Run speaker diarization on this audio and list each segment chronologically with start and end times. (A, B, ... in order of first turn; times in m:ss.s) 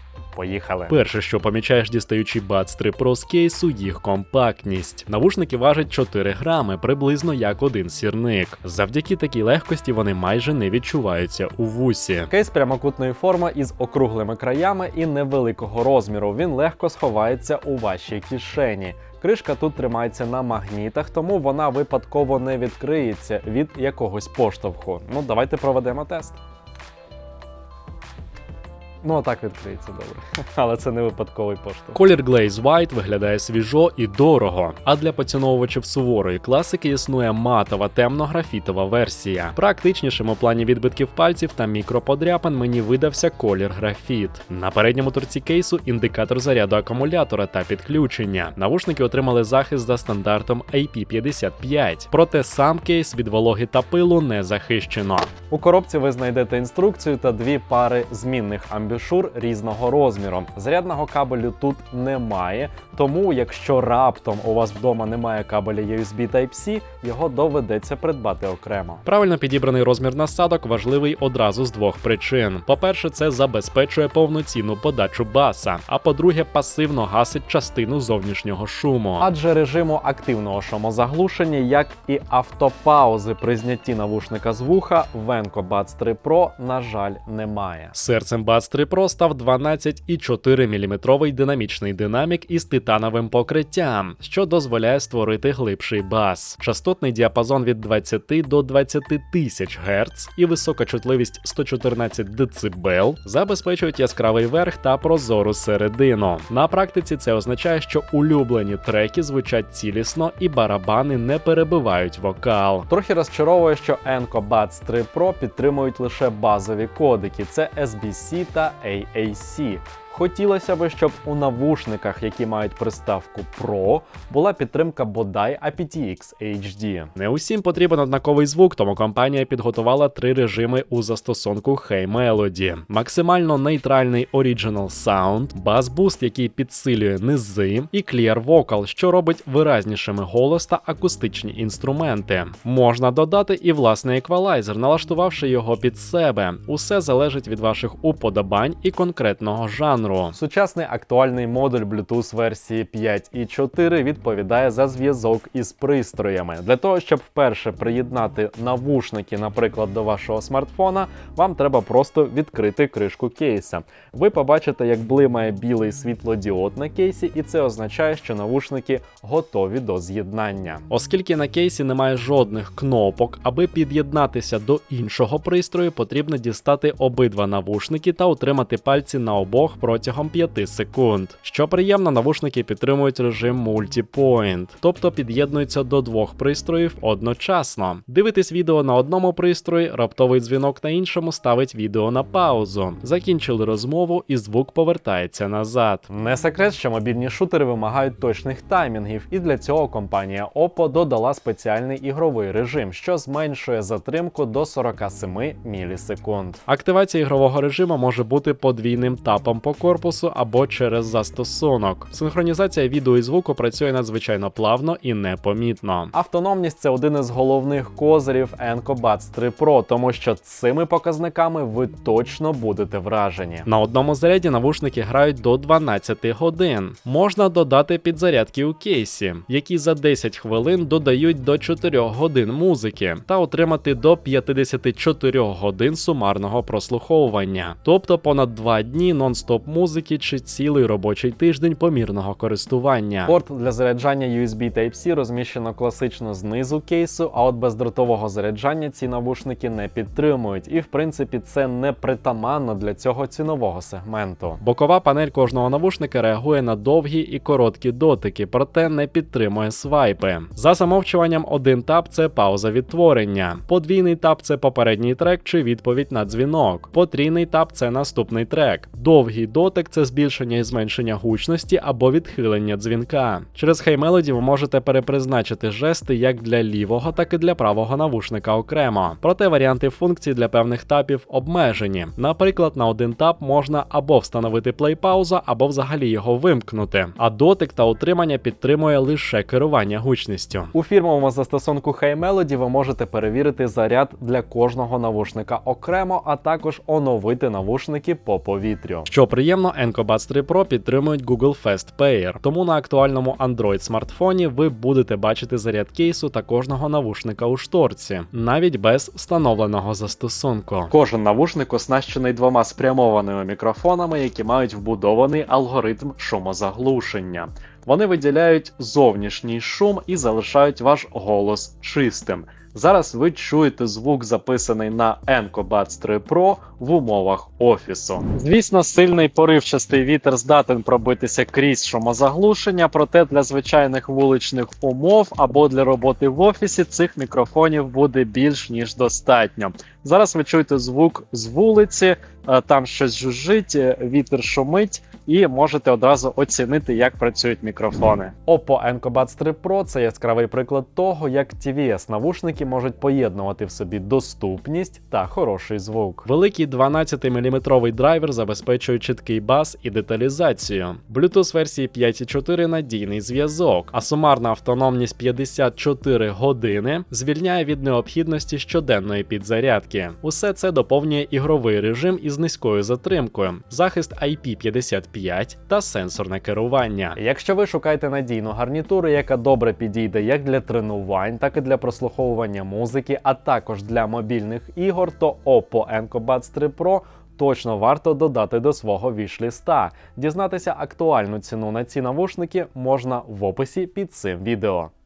0:00.3-0:00.9 A
0:00.9-0:12.3 B
0:12.3-0:26.4 A
0:18.4-0:19.0 B
0:29.0-0:32.0 A
0:31.9-0:55.3 B
0:55.5-1:09.0 A
1:09.0-1:19.3 B
1:19.2-1:27.9 A
1:27.9-1:52.9 B
1:52.9-2:07.1 A
2:07.1-2:30.3 B
2:30.3-2:50.9 A
2:50.9-3:16.1 B
3:16.1-3:26.6 A
3:26.7-3:36.1 B
3:36.1-3:43.7 A
3:43.7-4:03.3 B
4:03.3-4:14.6 A
4:14.6-4:50.7 B
4:50.7-4:59.1 A
4:59.1-5:10.9 B
5:10.9-5:15.1 A
5:14.7-5:28.2 B
5:24.7-5:25.5 A
5:26.5-5:26.9 A
5:28.2-5:56.2 A
5:38.8-5:39.8 B
5:56.2-6:17.2 B
6:17.2-6:34.9 A